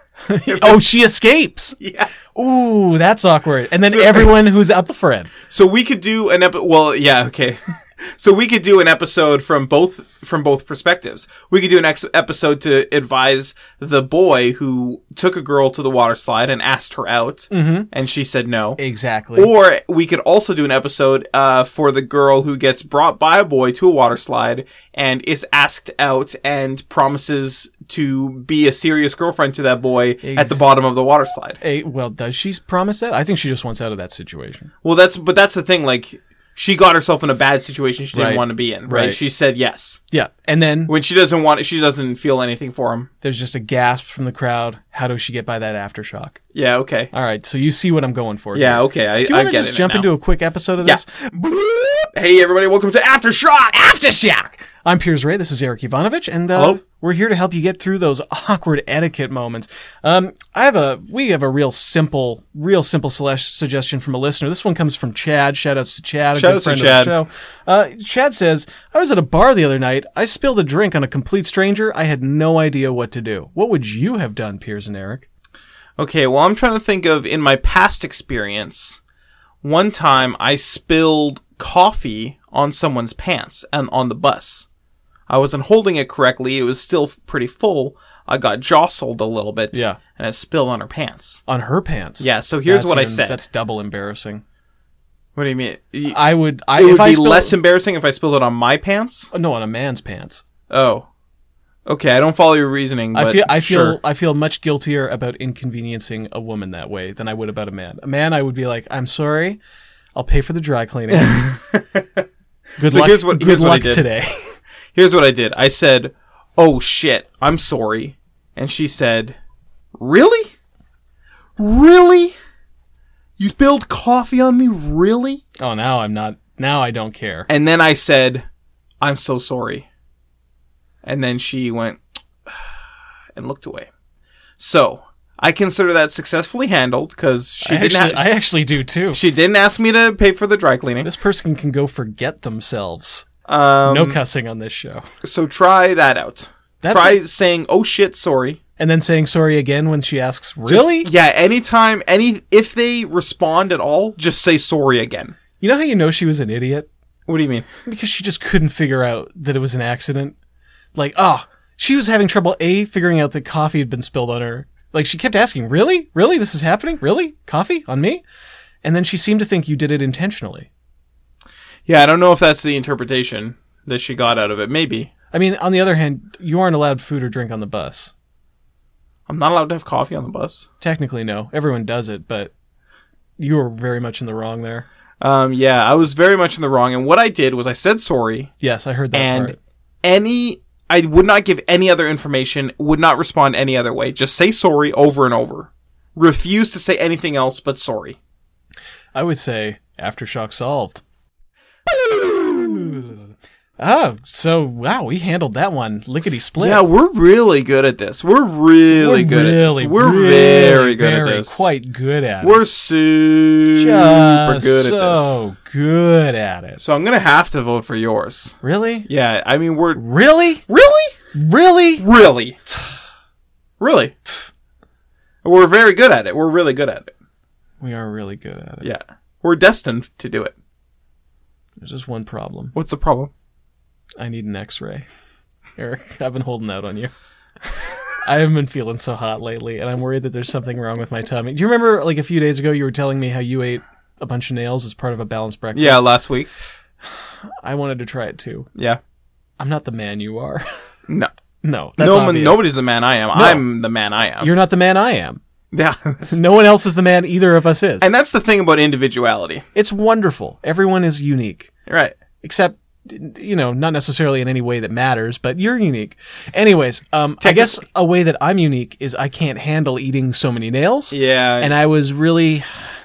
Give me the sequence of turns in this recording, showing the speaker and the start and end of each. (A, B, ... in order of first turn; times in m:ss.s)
0:00.3-0:01.8 A
0:00.4-0:00.8 B
0:01.8-0:02.1 B
0:02.3-0:05.3 A
0:03.8-0:04.4 B
0:05.5-0:18.8 B
0:17.5-0:17.9 A
0:18.8-0:19.5 A
0:19.4-0:31.6 B
0:30.2-0:30.6 A
0:31.6-0:34.7 A
0:34.8-0:40.0 B
0:38.1-0:39.2 A
0:40.1-0:40.9 A
0:40.9-0:43.1 B
0:43.2-0:46.4 A
0:46.5-0:47.1 B
0:47.1-0:51.1 A
0:48.5-0:50.1 B
0:50.8-0:54.6 B
0:54.8-1:15.2 A
0:56.5-0:56.8 B
1:06.3-1:07.2 B
1:16.0-1:19.0 B
1:19.6-1:24.7 B
1:25.3-1:31.4 B
1:29.7-1:30.0 A
1:31.5-1:34.4 A
1:32.2-1:33.4 B
1:35.4-1:36.2 B
1:36.1-1:37.6 A
1:36.7-1:39.3 B
1:39.3-1:40.4 A
1:40.7-1:41.1 B
1:41.8-1:44.0 B
1:43.1-1:49.6 A
1:50.1-1:51.5 A
1:51.1-1:52.2 B
1:52.8-1:54.5 A
1:52.8-1:54.1 B
1:54.9-1:59.4 B
2:00.0-2:00.5 B
2:01.6-2:02.3 B
2:03.4-2:05.4 B
2:05.6-2:07.5 A
2:07.5-2:08.4 B
2:09.0-2:09.8 B
2:11.0-2:12.7 B
2:13.3-2:13.9 B
2:14.6-2:18.3 B
2:17.6-2:19.2 A
2:19.1-2:21.1 B
2:21.0-2:23.2 A
2:23.4-2:24.2 B
2:23.8-2:25.0 A
2:25.2-2:28.6 B
2:26.8-2:27.2 A
2:28.8-2:31.1 A
2:30.6-2:35.4 B
2:35.6-2:36.9 A
2:37.3-2:37.6 B
2:37.8-2:40.4 A
2:40.9-2:48.2 A
2:48.8-2:50.7 A
2:51.9-2:55.1 B
2:55.3-2:58.1 A
2:59.3-3:00.7 B
3:00.8-3:02.5 A
3:03.4-3:04.8 A
3:05.2-3:08.5 B
3:08.6-3:09.6 A
3:09.1-3:18.2 B
3:19.1-3:21.0 A
3:21.9-3:23.1 B
3:22.5-3:23.2 A
3:23.8-3:26.8 A
3:26.5-3:31.6 B
3:28.9-3:32.6 A
3:32.4-3:35.4 B
3:33.8-3:36.8 A
3:36.8-3:38.5 B
3:38.6-3:39.1 A
3:39.0-3:40.0 B
3:40.0-3:40.6 A
3:40.7-3:41.1 B
3:41.3-3:42.0 A
3:42.0-3:42.6 B
3:43.8-3:44.1 B
3:45.4-3:47.1 B
3:47.8-3:48.8 A
3:48.8-3:50.5 B
3:51.8-3:52.7 A
3:52.7-3:53.3 B
3:54.2-3:55.0 A
3:55.8-3:57.1 A
3:57.6-4:06.1 A
4:05.7-4:06.5 B
4:07.1-4:08.7 A
4:09.6-4:10.6 A
4:11.6-4:12.7 A
4:12.0-4:14.5 B
4:13.3-4:13.6 A
4:14.4-4:15.4 A
4:15.7-4:16.4 B
4:16.3-4:18.1 A
4:18.0-4:19.6 B
4:19.7-4:21.7 A
4:21.9-4:22.2 B
4:22.4-4:32.9 A
4:27.4-4:27.8 B
4:31.1-4:31.8 B